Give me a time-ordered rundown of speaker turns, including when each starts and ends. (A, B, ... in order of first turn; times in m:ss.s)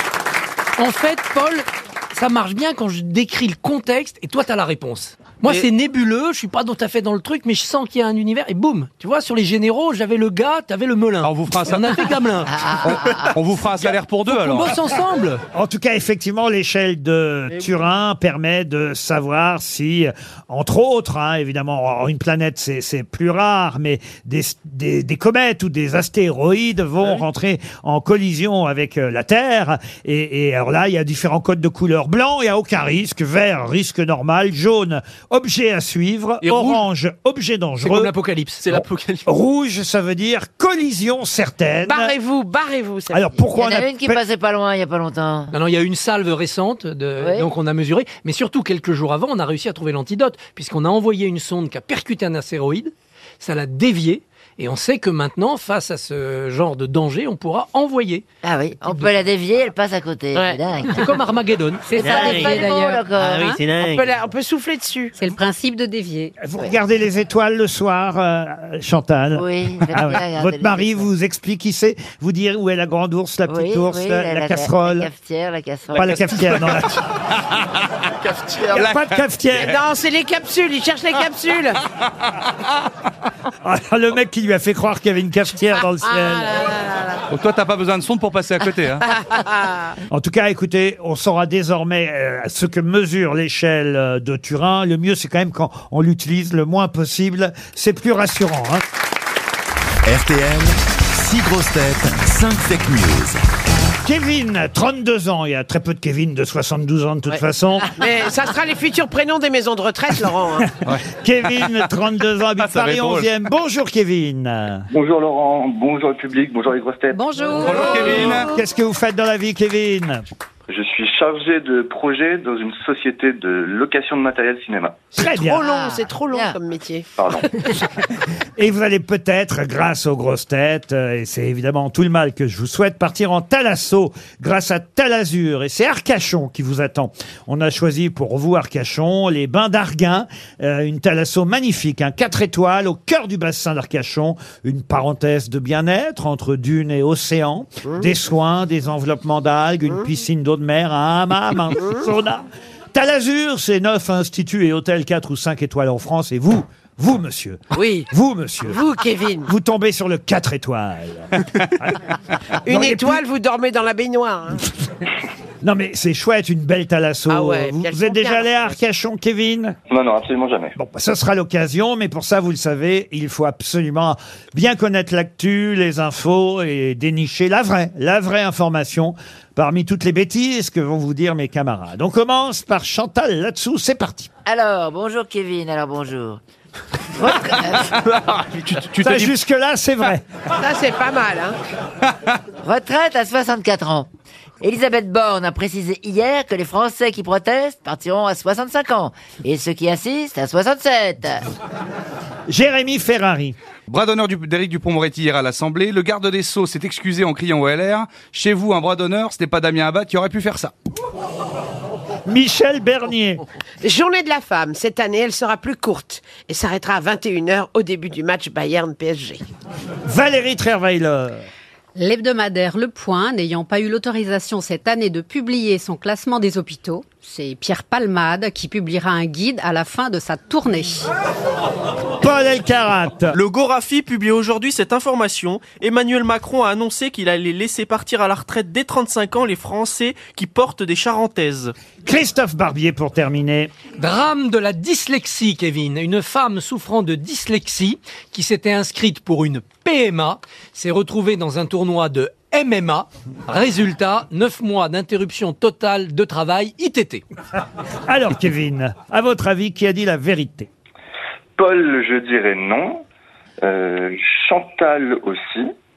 0:00.8-0:12.7 A
0:11.2-0:12.1 B
0:12.5-0:13.3 C
0:12.8-0:14.8 B
0:14.3-0:15.4 A
0:15.5-0:38.1 D
0:36.4-0:36.8 E
0:37.8-0:38.6 A
0:38.6-0:39.3 E
0:38.7-0:42.1 D
0:41.9-0:43.4 F
0:43.1-0:44.2 D
0:43.6-0:45.5 C
0:45.5-0:58.2 A
0:47.2-0:47.5 C
0:58.4-1:01.1 C
1:00.3-1:00.6 F
1:00.8-1:02.5 A
1:01.8-1:03.6 G
1:02.0-1:03.6 C
1:02.1-1:02.5 E
1:03.2-1:04.1 E
1:03.7-1:05.2 F
1:05.2-1:06.4 G
1:06.4-1:15.1 D
1:09.4-1:11.1 C
1:13.5-1:16.2 C
1:15.9-1:17.0 D
1:18.2-1:18.8 E
1:18.7-1:19.8 D
1:18.7-1:19.1 B
1:19.6-1:21.8 F
1:23.6-1:26.7 D
1:26.0-1:27.2 F
1:27.3-1:29.1 B
1:29.0-1:30.0 F
1:30.1-1:38.8 D
1:40.0-1:43.4 H
1:44.0-1:47.9 D
1:48.0-1:50.7 F
1:51.1-1:54.9 D
1:52.6-1:53.3 B
1:54.9-1:57.2 I
1:57.1-1:58.4 G
1:57.5-1:58.5 B
1:58.0-1:58.4 E
1:58.2-2:00.2 D
2:00.7-2:05.2 I
2:05.2-2:05.6 D
2:05.4-2:07.1 F
2:05.5-2:06.6 C
2:07.2-2:07.5 I
2:08.6-2:38.8 D
2:31.8-2:32.0 F
2:37.7-2:38.1 F
2:38.7-2:39.5 F
2:39.5-2:42.0 D
2:42.6-2:43.2 D
2:42.6-2:44.7 F
2:45.6-2:49.8 D
2:47.3-2:48.7 F
2:49.9-2:50.8 I
2:50.8-3:04.3 D
3:04.5-3:06.4 C
3:07.2-3:07.9 C
3:08.3-3:08.7 E
3:08.7-3:09.3 B
3:09.0-3:10.2 D
3:10.6-3:11.6 F
3:12.6-3:14.1 C
3:14.6-3:21.4 C
3:22.5-3:23.6 D
3:23.9-3:30.7 B
3:32.3-3:33.4 D
3:33.8-3:39.5 F
3:40.0-3:41.4 D
3:42.0-3:51.1 G
3:52.2-3:53.4 D
3:53.3-4:01.7 E
4:02.0-4:03.7 D
4:04.0-4:17.2 A
4:18.1-4:20.7 D
4:21.6-4:23.0 I
4:23.6-4:25.7 I